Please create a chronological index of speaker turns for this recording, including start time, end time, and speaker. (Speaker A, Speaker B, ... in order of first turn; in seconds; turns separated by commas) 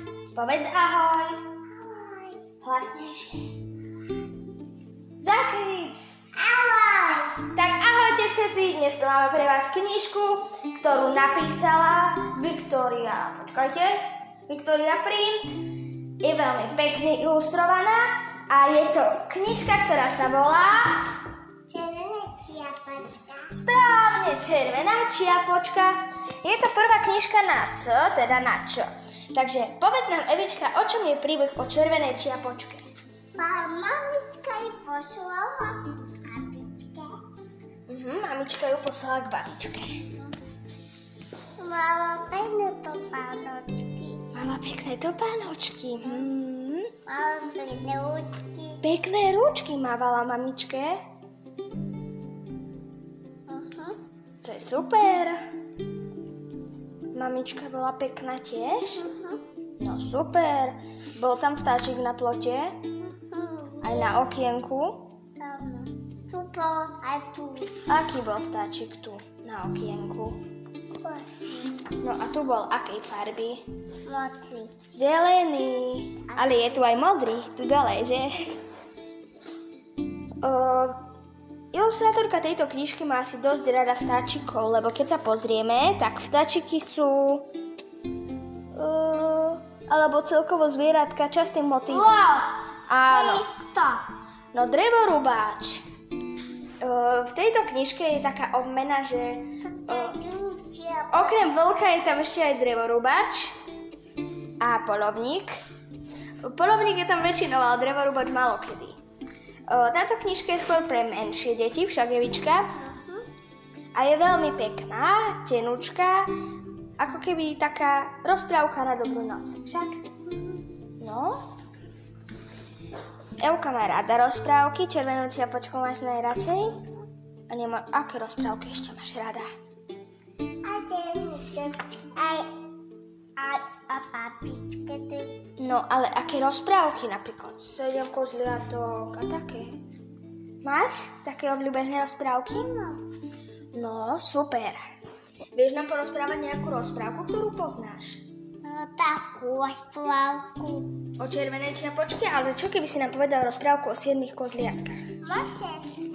Speaker A: 0.3-1.4, Speaker B: 1.7-2.5, Speaker A: 2.6-3.5, Speaker A: 5.2-6.0, Speaker B: 6.3-7.5, Speaker A: 7.5-13.9, Speaker A: 14.5-15.6, Speaker A: 16.2-21.2, Speaker B: 21.7-23.5, Speaker A: 23.5-32.9, Speaker B: 33.4-37.2, Speaker A: 37.9-40.0, Speaker B: 41.6-44.2, Speaker A: 44.3-46.9, Speaker B: 47.1-48.8, Speaker A: 48.8-51.0, Speaker B: 53.5-54.0, Speaker A: 54.4-55.4, Speaker A: 57.1-59.0, Speaker B: 59.0-59.4, Speaker A: 59.8-62.9, Speaker B: 63.0-64.2, Speaker A: 63.8-65.1, Speaker B: 65.4-67.8, Speaker A: 67.9-70.4, Speaker B: 71.0-71.8, Speaker A: 72.0-73.6, Speaker B: 74.1-74.7, Speaker A: 74.9-78.5, Speaker B: 76.3-76.8, Speaker A: 80.4-81.0, Speaker A: 81.7-87.5, Speaker A: 88.7-92.2, Speaker B: 91.9-92.5, Speaker A: 92.9-93.5, Speaker B: 93.1-94.0, Speaker A: 94.5-95.8, Speaker A: 96.8-100.2, Speaker B: 99.7-101.5, Speaker A: 101.1-103.5, Speaker A: 104.6-105.6, Speaker A: 106.4-109.0, Speaker A: 109.7-112.7, Speaker B: 112.8-113.3, Speaker A: 113.9-116.3, Speaker A: 117.0-120.0, Speaker A: 121.0-121.4, Speaker A: 123.4-126.9, Speaker A: 127.5-129.5, Speaker B: 130.6-132.5, Speaker B: 133.4-135.4, Speaker A: 135.6-139.8, Speaker A: 140.6-142.7, Speaker B: 142.5-143.0, Speaker A: 143.7-144.8, Speaker A: 145.5-148.2, Speaker B: 148.6-151.0, Speaker A: 151.2-155.0, Speaker B: 155.2-156.0